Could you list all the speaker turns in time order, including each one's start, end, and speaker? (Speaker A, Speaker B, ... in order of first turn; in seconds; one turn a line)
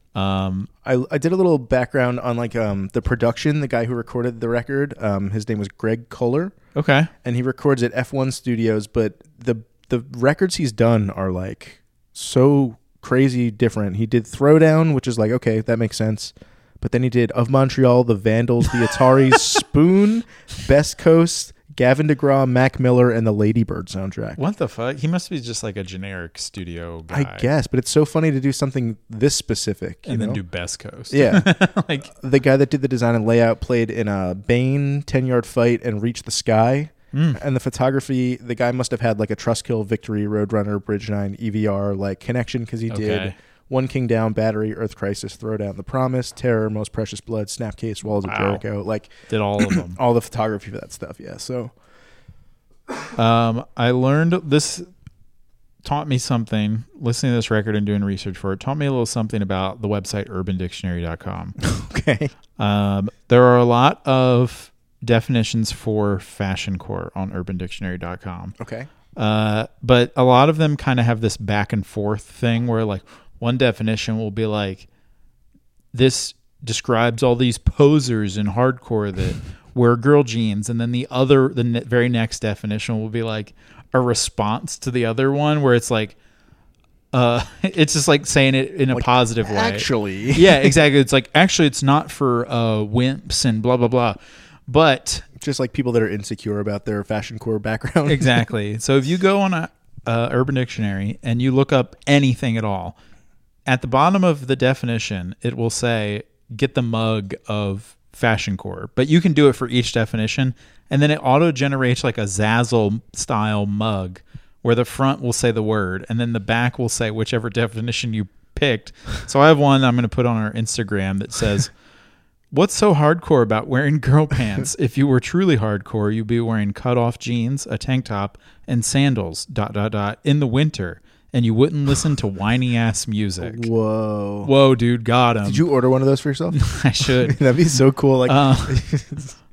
Speaker A: 0.1-0.7
Speaker B: 0.8-6.5
Speaker A: 6.7-7.1
Speaker B: 7.2-24.4
Speaker A: 24.4-27.5
Speaker B: 27.1-30.4
Speaker A: 30.1-32.1
Speaker B: 31.1-31.5
Speaker B: 32.1-51.7
Speaker A: 37.1-37.4
Speaker A: 42.9-43.3
Speaker A: 48.2-48.6
Speaker A: 49.3-50.0
Speaker A: 53.1-54.9
Speaker A: 55.8-61.6
Speaker B: 61.6-62.3
Speaker A: 62.6-68.5
Speaker B: 68.6-68.9
Speaker A: 69.2-74.9
Speaker A: 75.9-86.2
Speaker A: 87.1-95.3
Speaker B: 88.9-90.8
Speaker B: 95.4-98.5
Speaker A: 98.0-103.0
Speaker A: 103.7-121.7
Speaker A: 122.5-133.7
Speaker B: 133.4-134.5
Speaker A: 134.4-135.7
Speaker B: 135.4-139.4
Speaker A: 136.5-137.4
Speaker A: 138.2-138.8